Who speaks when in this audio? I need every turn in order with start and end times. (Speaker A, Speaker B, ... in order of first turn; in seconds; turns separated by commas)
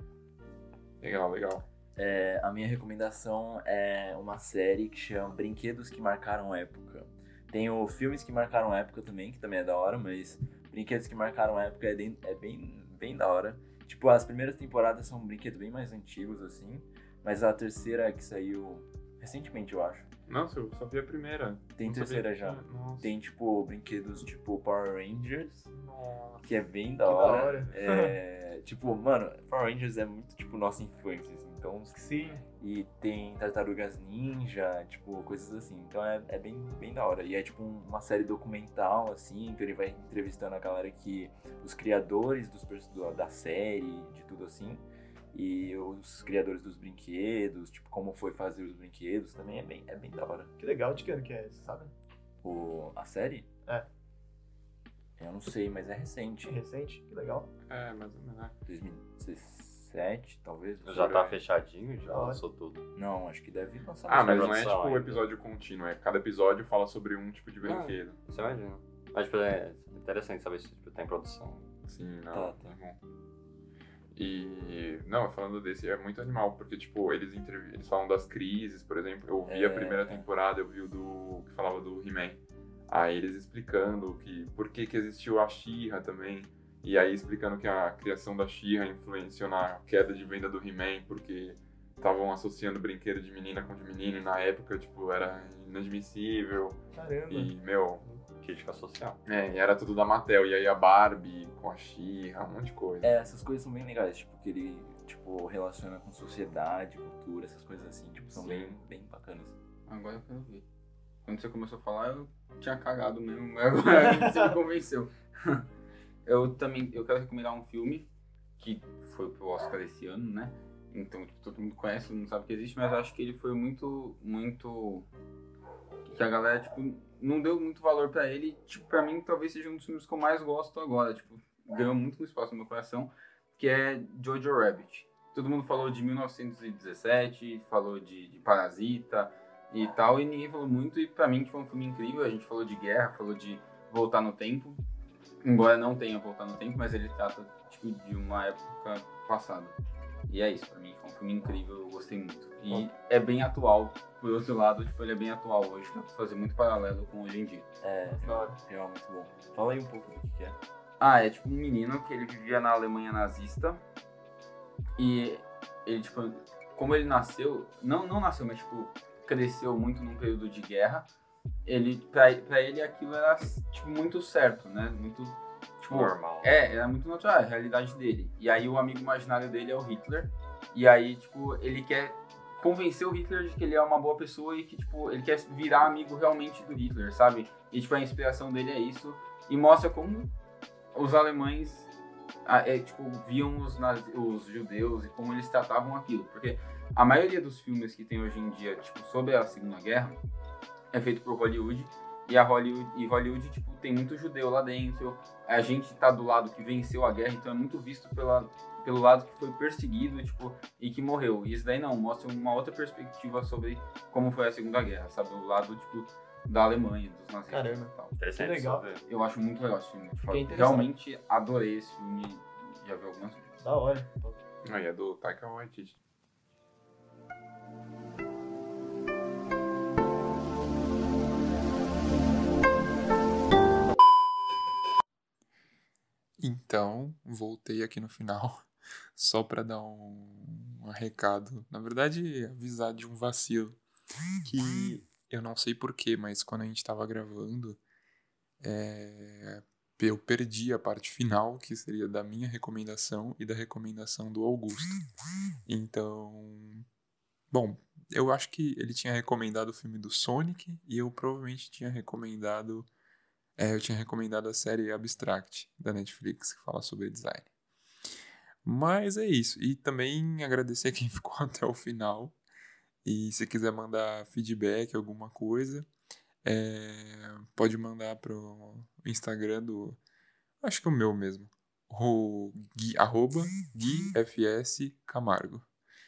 Speaker A: 1.0-1.6, Speaker B: 1.9-20.1, Speaker A: 20.3-23.1, Speaker B: 21.8-25.7, Speaker A: 25.7-26.4, Speaker B: 26.4-32.0, Speaker C: 27.0-28.1, Speaker C: 31.9-32.4, Speaker B: 32.6-50.5, Speaker C: 50.6-51.9, Speaker B: 52.4-53.5, Speaker B: 55.2-56.6, Speaker C: 56.4-57.5, Speaker A: 57.7-58.5, Speaker B: 58.7-61.3, Speaker D: 60.8-62.8, Speaker C: 62.1-62.4, Speaker B: 62.9-64.6, Speaker A: 64.1-68.2, Speaker D: 64.2-65.2, Speaker D: 67.6-71.7, Speaker A: 71.9-73.0, Speaker B: 72.3-72.7, Speaker A: 74.1-98.0, Speaker B: 79.5-80.2, Speaker C: 96.9-97.5, Speaker D: 98.0-99.2, Speaker A: 99.2-103.1, Speaker B: 103.0-109.5, Speaker D: 108.4-108.7, Speaker E: 109.9-110.6, Speaker E: 111.2-115.7, Speaker C: 113.9-114.6, Speaker E: 116.2-118.1, Speaker E: 118.6-125.1, Speaker E: 126.1-144.8, Speaker E: 145.4-149.8, Speaker E: 150.3-157.7, Speaker B: 157.8-160.6, Speaker C: 158.2-158.6, Speaker E: 161.0-163.8, Speaker E: 165.0-171.1, Speaker E: 171.7-190.3, Speaker D: 175.9-176.6, Speaker E: 190.9-191.9, Speaker E: 192.4-200.2, Speaker E: 200.9-218.2, Speaker C: 217.5-218.9, Speaker D: 218.2-219.0, Speaker E: 219.1-223.5, Speaker C: 220.2-220.9, Speaker C: 223.6-224.4, Speaker A: 224.6-226.0, Speaker F: 236.4-243.8, Speaker F: 244.4-247.8, Speaker F: 248.6-255.0, Speaker F: 255.7-256.8, Speaker F: 257.5-262.9, Speaker F: 263.6-267.5, Speaker F: 268.6-272.4, Speaker F: 273.0-275.9, Speaker F: 276.4-280.0, Speaker F: 280.6-285.6